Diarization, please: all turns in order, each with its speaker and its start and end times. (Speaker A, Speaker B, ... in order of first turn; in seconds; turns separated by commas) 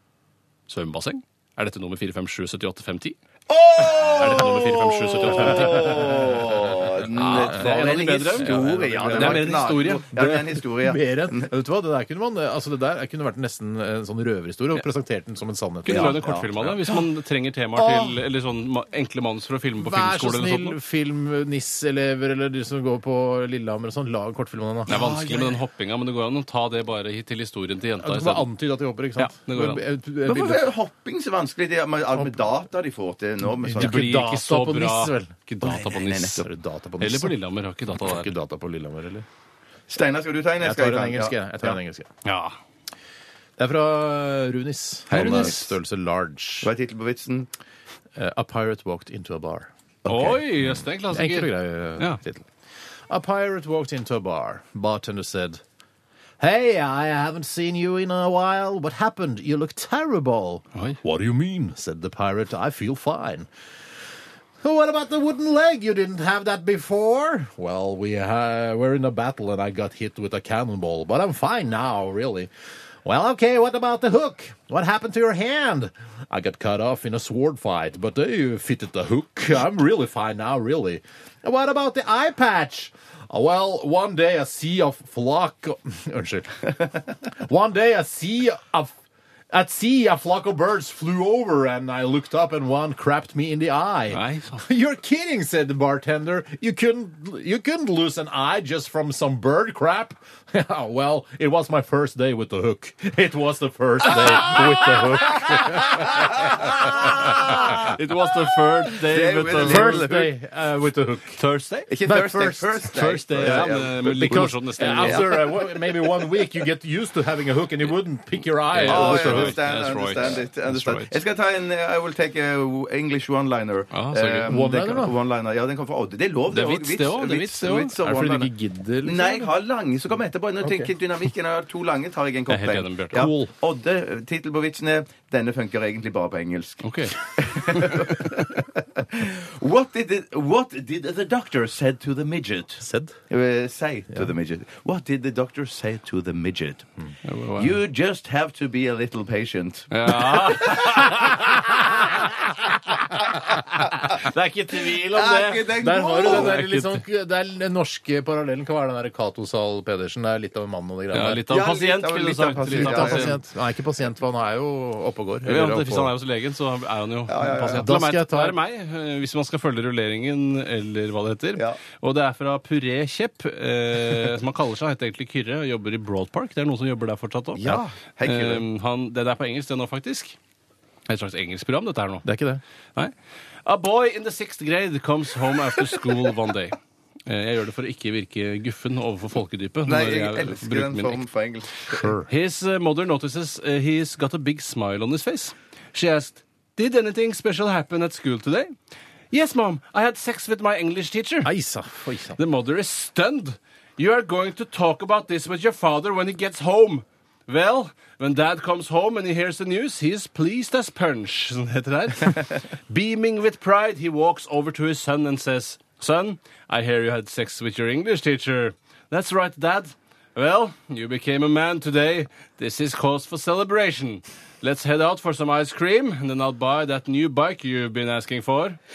Speaker A: 0.7-3.1, Speaker B: 3.5-11.5, Speaker C: 4.1-9.6, Speaker A: 4.2-6.3, Speaker A: 7.1-10.1, Speaker C: 10.1-16.8, Speaker A: 15.8-20.8, Speaker B: 15.9-16.5, Speaker C: 17.7-18.2, Speaker C: 19.8-25.0, Speaker B: 24.9-25.6, Speaker A: 24.9-28.5, Speaker C: 28.0-30.7, Speaker A: 29.1-29.8, Speaker B: 30.2-34.1, Speaker C: 33.4-35.4, Speaker A: 33.7-36.4, Speaker B: 35.6-36.5, Speaker C: 36.4-37.4, Speaker A: 37.0-38.3, Speaker C: 37.9-39.2, Speaker B: 39.9-41.8, Speaker C: 40.6-42.1, Speaker A: 42.2-42.5, Speaker C: 43.6-46.7, Speaker B: 45.1-45.6, Speaker A: 45.1-45.7, Speaker B: 46.6-47.5, Speaker C: 48.1-49.7, Speaker B: 50.0-50.4, Speaker A: 50.1-52.2, Speaker C: 50.6-52.5, Speaker C: 53.1-55.6, Speaker C: 56.4-63.5, Speaker C: 64.6-72.5, Speaker C: 73.0-88.9, Speaker C: 89.5-107.7, Speaker A: 94.1-94.6, Speaker B: 104.4-107.9, Speaker A: 107.2-110.1, Speaker B: 108.9-110.3, Speaker C: 109.6-111.4, Speaker A: 111.4-111.9, Speaker B: 111.9-114.5, Speaker C: 112.0-119.6, Speaker A: 112.9-115.5, Speaker B: 115.0-116.4, Speaker A: 118.7-121.2, Speaker B: 118.8-128.5, Speaker A: 123.9-124.5, Speaker C: 124.5-125.1, Speaker A: 126.5-128.0, Speaker C: 128.0-129.5, Speaker B: 129.0-146.9, Speaker C: 130.6-130.9, Speaker A: 132.5-133.3, Speaker C: 133.1-133.5, Speaker A: 136.8-137.2, Speaker C: 142.8-143.2, Speaker A: 147.2-147.8, Speaker B: 147.5-151.1, Speaker A: 149.9-152.1, Speaker C: 151.1-152.3, Speaker C: 153.5-153.9, Speaker B: 153.8-154.2, Speaker A: 154.1-157.0, Speaker B: 154.9-156.6, Speaker C: 155.7-161.4, Speaker A: 161.1-163.4, Speaker B: 161.5-163.3, Speaker C: 162.7-166.1, Speaker A: 165.4-180.4, Speaker B: 167.3-167.9, Speaker C: 167.6-168.6, Speaker B: 177.5-178.6, Speaker A: 181.1-182.2, Speaker C: 182.2-182.6, Speaker A: 183.6-191.2, Speaker B: 189.8-192.1, Speaker C: 191.9-192.3, Speaker A: 192.3-198.7, Speaker A: 199.3-201.5, Speaker C: 201.4-202.4, Speaker A: 202.4-228.8